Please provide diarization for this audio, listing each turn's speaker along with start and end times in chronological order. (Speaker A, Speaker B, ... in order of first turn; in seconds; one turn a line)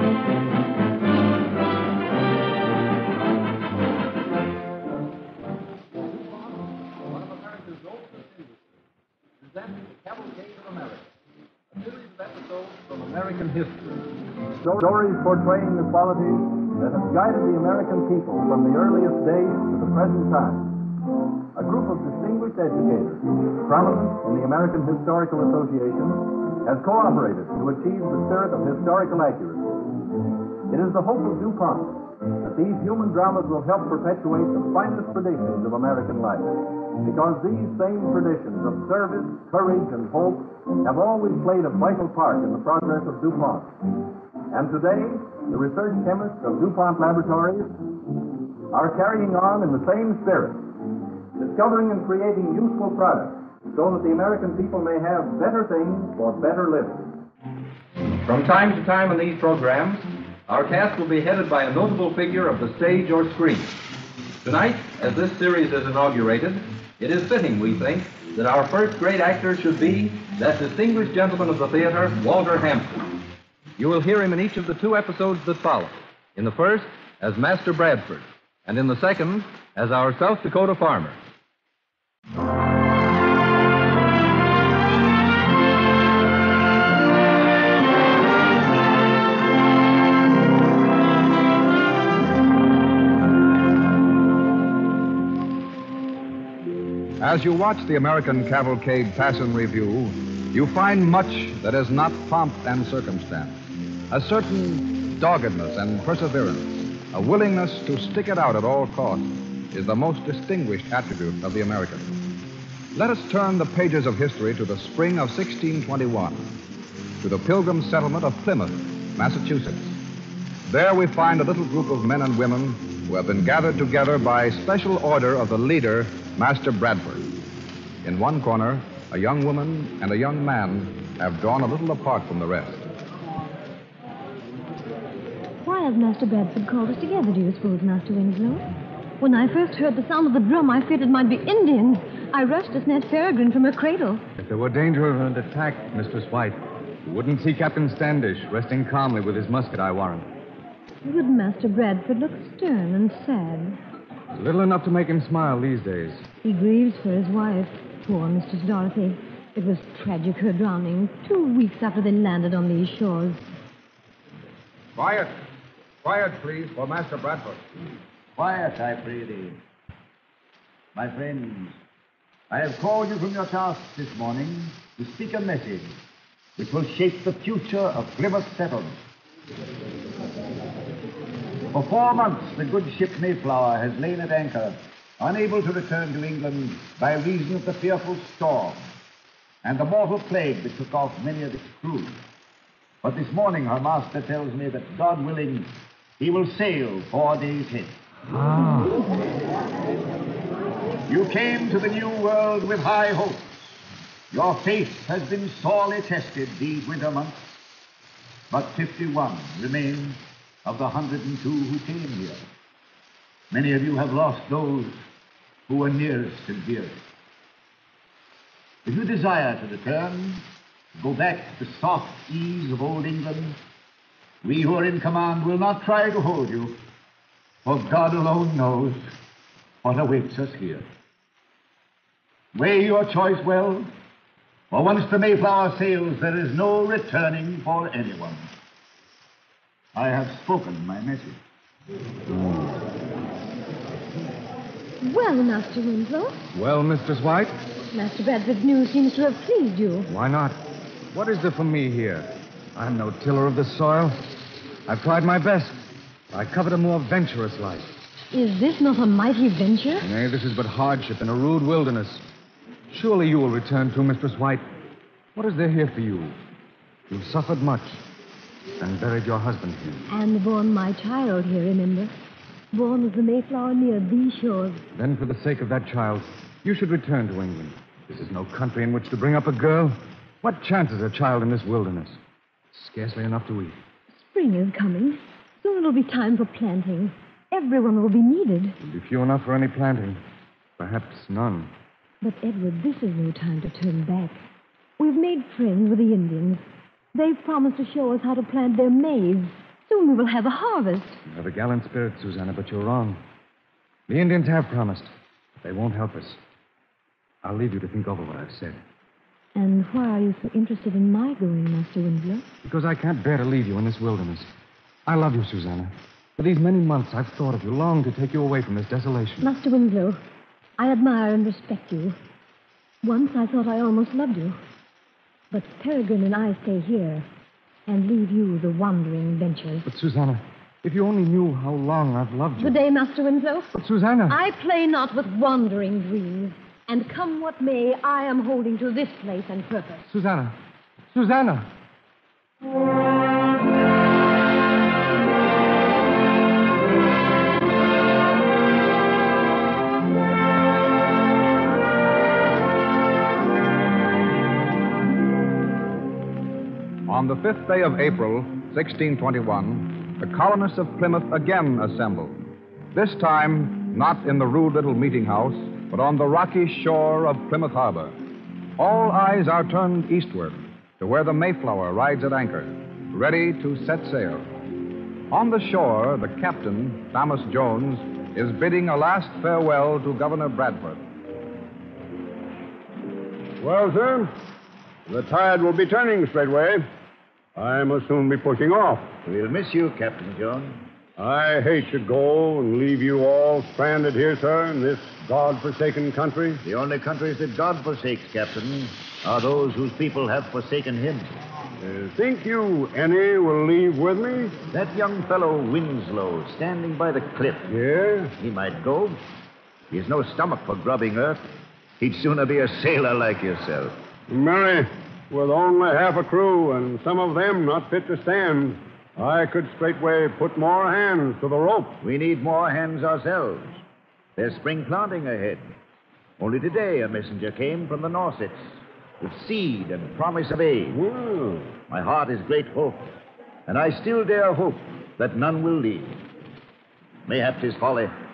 Speaker A: 12.0-14.0
Speaker B: 14.6-21.0
Speaker B: 21.5-29.8
Speaker B: 30.7-47.8
Speaker B: 48.7-50.8
Speaker B: 51.4-57.2
Speaker A: 58.0-63.8
Speaker A: 64.4-73.2
Speaker A: 73.8-81.2
Speaker C: 97.2-112.1
Speaker C: 112.9-116.6
Speaker C: 117.2-120.0
Speaker C: 120.7-127.4
Speaker C: 128.0-132.8
Speaker D: 135.6-138.7
Speaker D: 139.2-144.2
Speaker E: 144.4-150.3
Speaker D: 151.0-153.8
Speaker E: 154.3-156.2
Speaker D: 156.4-163.4
Speaker C: 164.9-165.3
Speaker C: 166.0-167.6
Speaker F: 168.3-169.6
Speaker F: 170.9-171.8
Speaker F: 172.5-176.0
Speaker F: 176.6-179.0
Speaker F: 181.7-188.8
Speaker F: 189.6-192.2
Speaker F: 193.0-198.0
Speaker E: 198.3-198.9
Speaker F: 201.1-203.7
Speaker F: 204.3-207.4
Speaker F: 208.5-212.4
Speaker F: 213.5-215.0
Speaker F: 215.7-217.0
Speaker F: 218.8-220.4
Speaker F: 220.9-223.6
Speaker F: 224.4-226.8
Speaker F: 227.6-229.1
Speaker F: 229.8-230.9
Speaker F: 232.5-233.9
Speaker F: 234.7-238.5
Speaker F: 239.9-241.4
Speaker D: 245.0-246.4
Speaker E: 246.5-247.6
Speaker D: 247.9-250.1
Speaker E: 250.1-255.8
Speaker E: 256.3-257.9
Speaker D: 258.3-260.0
Speaker E: 260.0-262.2
Speaker E: 262.9-264.7
Speaker E: 265.3-266.4
Speaker E: 267.1-268.0
Speaker E: 268.8-270.1
Speaker D: 270.1-272.1
Speaker D: 272.7-274.8
Speaker E: 274.9-282.2
Speaker E: 282.7-283.8
Speaker D: 284.1-288.8
Speaker E: 288.8-290.2
Speaker E: 290.8-291.7
Speaker D: 292.2-294.4
Speaker D: 295.0-301.2
Speaker E: 301.3-303.2
Speaker E: 304.1-305.1
Speaker E: 305.6-306.4
Speaker E: 307.4-308.8
Speaker D: 309.5-312.4
Speaker E: 312.6-314.5
Speaker E: 315.1-319.5
Speaker D: 319.4-320.2
Speaker D: 320.8-322.2
Speaker D: 323.0-324.6
Speaker D: 325.5-327.3
Speaker D: 327.9-329.9
Speaker E: 329.9-332.8
Speaker D: 332.6-333.7
Speaker E: 333.8-334.4
Speaker D: 334.3-340.0
Speaker E: 340.1-340.5
Speaker E: 341.1-341.7
Speaker C: 357.1-368.2
Speaker C: 368.8-374.5
Speaker C: 375.3-381.1
Speaker G: 383.6-384.3
Speaker G: 385.1-386.8
Speaker G: 387.6-389.1
Speaker F: 389.2-390.8
Speaker G: 391.2-396.6
Speaker F: 396.6-401.3
Speaker G: 401.8-404.5
Speaker F: 404.7-407.7
Speaker G: 407.7-408.3
Speaker F: 408.4-409.2
Speaker F: 409.9-411.4
Speaker F: 412.0-413.9
Speaker G: 414.3-421.9
Speaker F: 422.0-423.8
Speaker F: 424.4-425.7
Speaker F: 426.4-431.0
Speaker G: 430.9-431.7
Speaker F: 431.9-433.0
Speaker F: 433.7-436.2
Speaker F: 437.2-438.1